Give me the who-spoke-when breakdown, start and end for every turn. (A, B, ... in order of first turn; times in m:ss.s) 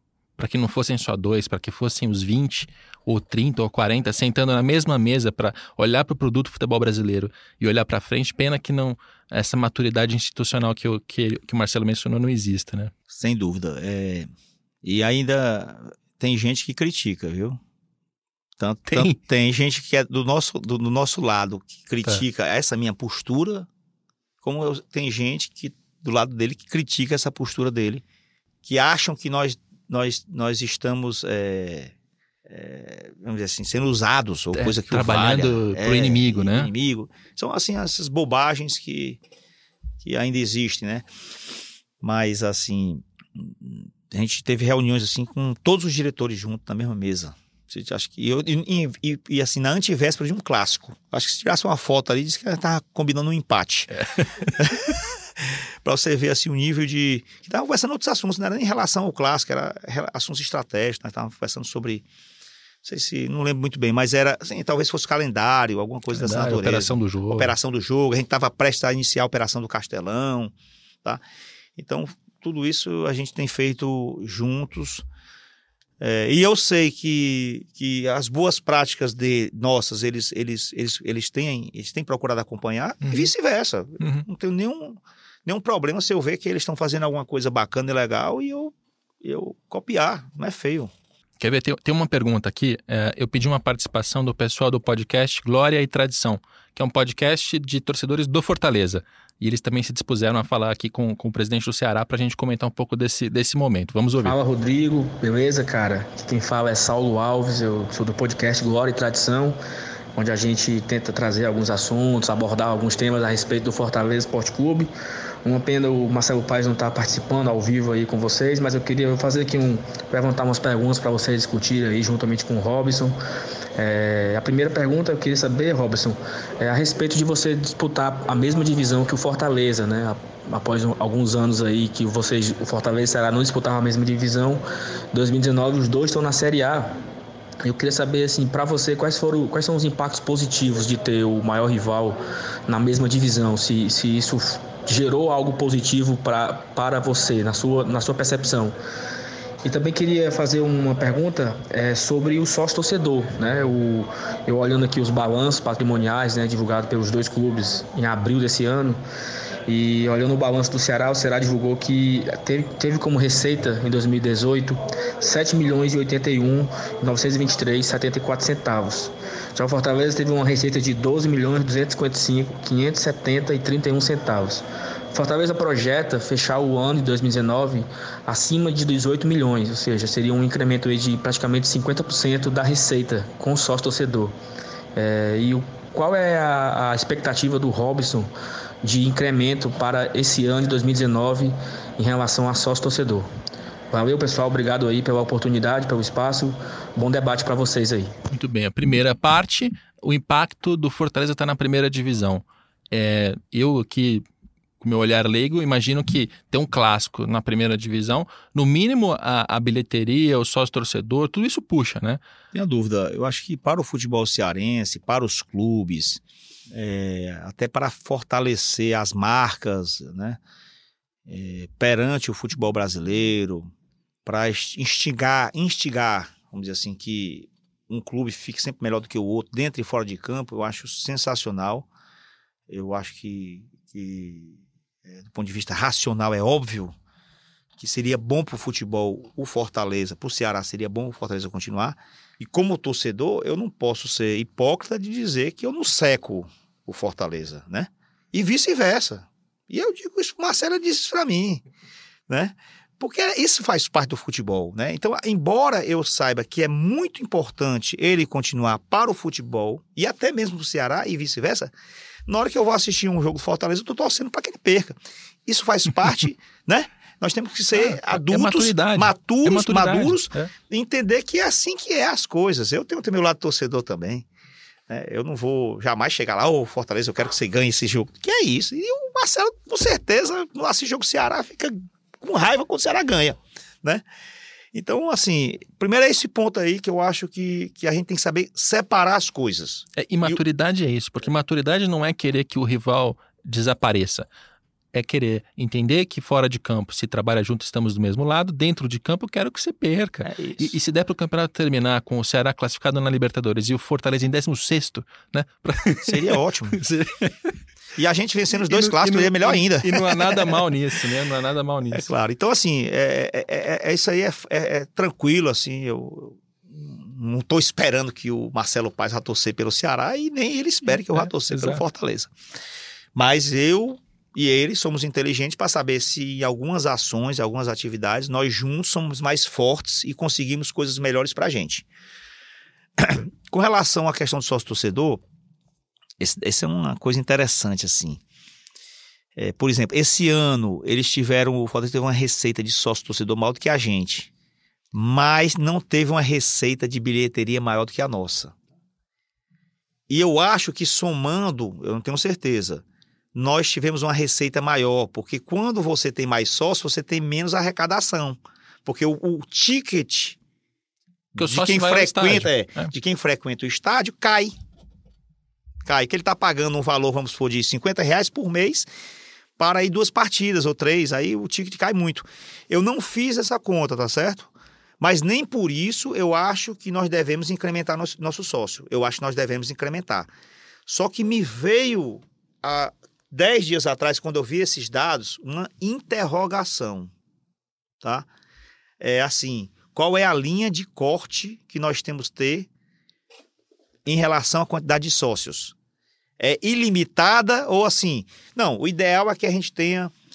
0:00.4-0:12.9 A
0:13.1-0:14.3 B
0:14.8-0:17.6 B
0:18.6-0:23.7 B
0:18.9-0:19.2 A
0:24.4-0:28.0 B
0:28.6-0:31.9 B
0:32.5-0:39.2 B
0:34.5-0:36.7 A
0:40.0-0:41.1 B
0:42.0-0:54.0 B
0:54.0-0:54.7 A
0:54.6-1:02.0 B
1:02.8-1:10.5 B
1:06.1-1:07.5 A
1:11.8-1:15.0 B
1:16.0-1:30.9 B
1:23.0-1:23.3 A
1:24.0-1:24.2 A
1:31.4-1:44.4 A
1:44.2-1:49.6 C
1:50.2-1:54.9 C
1:55.4-2:03.1 C
2:03.8-2:14.6 C
2:15.1-2:16.9 C
2:17.6-2:28.7 C
2:29.6-2:39.0 C
2:39.7-3:04.3 C
3:04.9-3:08.3 C
3:08.8-3:13.3 C
3:13.9-3:18.1 C
3:18.3-3:24.2 A
3:24.8-3:32.2 A
3:32.5-3:40.4 B
3:41.3-3:43.7 B
3:44.2-3:51.9 B
3:52.7-3:56.9 B
3:57.8-4:11.6 B
4:12.3-4:21.7 B
4:22.2-4:34.2 B
4:27.7-4:30.5 A
4:34.9-4:44.0 B
4:44.7-4:50.4 B
4:50.0-4:54.3 A
4:54.9-5:07.5 A
5:00.2-5:00.7 B
5:06.0-5:06.8 B
5:08.0-5:10.6 B
5:08.6-5:12.1 A
5:11.9-5:22.3 B
5:21.1-5:21.8 A
5:23.1-5:31.9 B
5:33.0-5:35.2 B
5:36.2-5:38.2 B
5:39.4-5:44.3 B
5:44.9-5:48.5 B
5:50.1-6:00.4 B
6:01.3-6:04.6 B
6:01.4-6:02.9 A
6:05.8-6:08.9 B
6:09.6-6:20.3 B
6:20.9-6:27.1 B
6:28.0-6:28.3 B
6:29.0-6:32.7 B
6:34.0-6:35.7 B
6:36.4-6:40.1 B